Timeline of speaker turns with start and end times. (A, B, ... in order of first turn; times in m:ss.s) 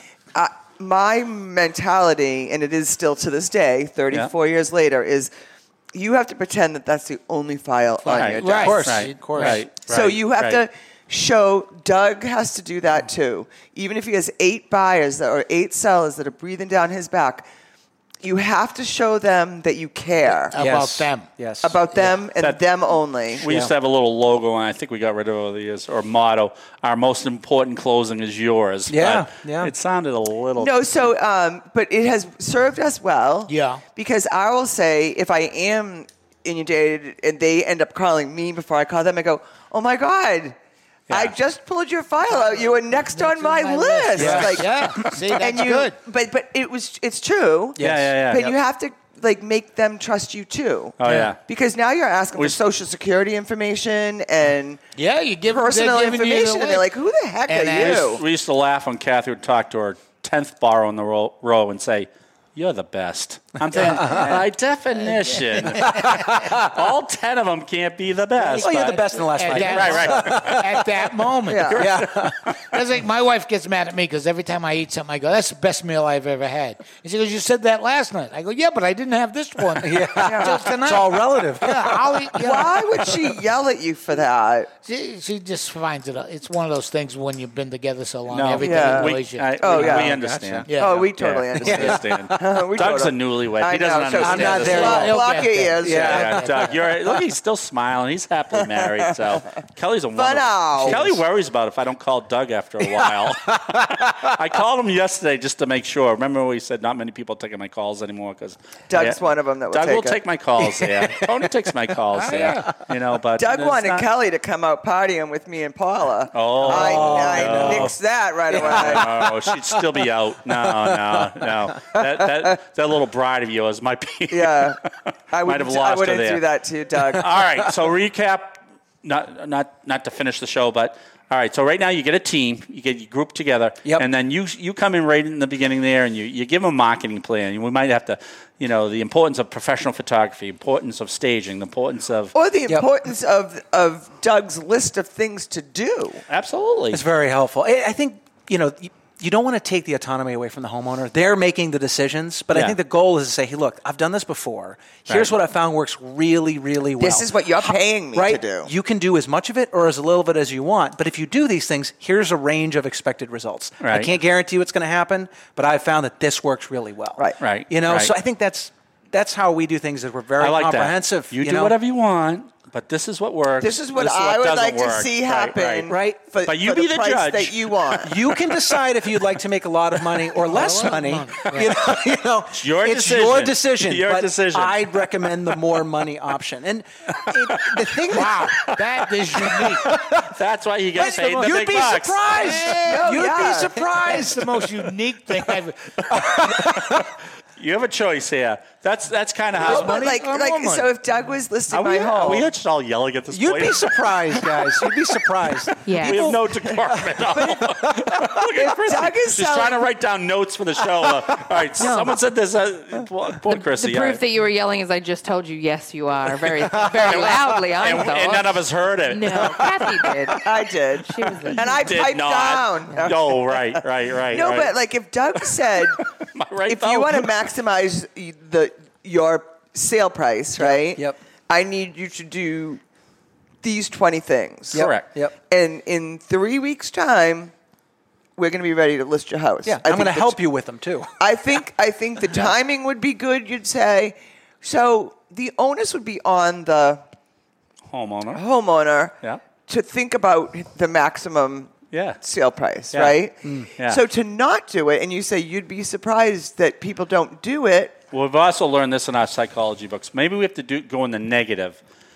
0:00.3-0:05.3 A
0:05.9-0:09.0 A
0:08.0-0:09.6 B
0:08.1-0:10.6 C
0:08.5-0:09.6 D
0:09.8-0:17.5 A
0:18.2-0:20.6 A
0:20.5-0:21.3 B
0:20.6-0:22.1 D
0:21.6-0:23.4 A
0:23.4-0:30.9 C
0:23.4-0:23.7 D
0:28.9-0:29.7 D
0:30.6-0:40.6 A
0:33.5-0:33.8 B
0:41.1-0:41.4 C
0:41.1-0:54.8 A
0:42.4-0:46.0 B
0:44.2-0:44.7 D
0:47.8-0:48.2 D
0:47.8-0:48.5 C
0:51.0-0:51.4 C
0:55.0-0:56.9 B
0:55.5-0:58.2 A
0:57.5-0:58.2 B
0:57.8-1:10.6 C
1:03.7-1:04.3 B
1:03.7-1:04.4 D
1:05.3-1:06.2 B
1:05.8-1:06.7 D
1:08.4-1:11.8 B
1:08.5-1:10.9 D
1:11.5-1:11.9 A
1:11.7-1:12.6 C
1:11.8-1:12.4 D
1:12.7-1:23.1 B
1:19.8-1:22.3 D
1:20.2-1:20.7 A
1:22.4-1:24.7 A
1:24.8-1:29.5 B
1:28.3-1:35.1 C
1:28.6-1:30.2 A
1:29.6-1:30.7 D
1:30.7-1:31.0 B
1:30.7-1:36.4 A
1:31.6-1:32.4 D
1:34.2-1:35.2 D
1:34.6-1:36.8 B
1:35.8-1:36.4 D
1:35.9-1:49.2 C
1:38.6-1:39.2 A
1:40.2-1:41.1 A
1:40.8-1:41.2 D
1:42.9-1:44.3 D
1:48.9-1:50.2 A
1:49.7-1:54.1 C
1:50.6-1:51.3 D
1:52.2-1:52.7 B
1:53.4-1:59.1 A
1:56.3-1:57.9 C
1:56.6-1:57.9 D
1:58.5-1:59.8 D
1:58.5-2:04.9 C
2:00.6-2:02.0 D
2:04.3-2:04.8 A
2:05.3-2:07.3 A
2:05.4-2:06.4 C
2:07.1-2:22.3 C
2:22.3-2:26.2 A
2:26.3-2:27.0 C
2:26.9-2:51.8 D
2:32.5-2:32.8 C
2:35.1-2:35.4 C
2:37.0-2:38.7 A
2:43.8-2:44.1 C
2:47.4-2:48.1 C
2:50.4-2:55.9 C
2:53.6-2:58.2 A
2:55.9-2:56.2 D
2:56.4-2:57.9 C
2:58.0-3:08.7 D
3:00.5-3:01.7 B
3:02.5-3:04.9 C
3:07.2-3:08.0 C
3:08.1-3:09.8 B
3:09.4-3:10.3 D
3:09.8-3:12.5 C
3:11.0-3:14.7 D
3:11.0-3:16.2 B
3:12.8-3:13.8 A
3:16.1-3:17.1 D
3:16.4-3:20.0 C
3:19.6-3:22.5 A
3:19.6-3:20.9 B
3:21.7-3:24.8 C
3:23.3-3:26.4 D
3:25.8-3:26.3 E
3:25.9-3:34.2 C
3:26.6-3:27.7 A
3:27.3-3:28.3 D
3:28.6-3:29.9 A
3:31.8-3:32.2 E
3:33.5-3:40.5 E
3:36.6-3:37.5 D
3:36.9-3:40.2 C
3:40.4-3:46.0 A
3:41.0-3:41.8 E
3:41.4-3:44.8 C
3:45.8-3:47.3 C
3:46.7-3:52.8 A
3:50.6-3:51.2 D
3:53.6-3:54.9 A
3:54.7-3:55.1 C
3:54.7-3:55.3 D
3:55.5-3:57.5 A
3:58.4-4:00.4 A
3:59.7-4:01.1 D
4:01.2-4:07.0 A
4:07.9-4:08.4 C
4:08.3-4:09.2 A
4:09.7-4:18.0 A
4:11.9-4:12.2 C
4:18.1-4:21.8 C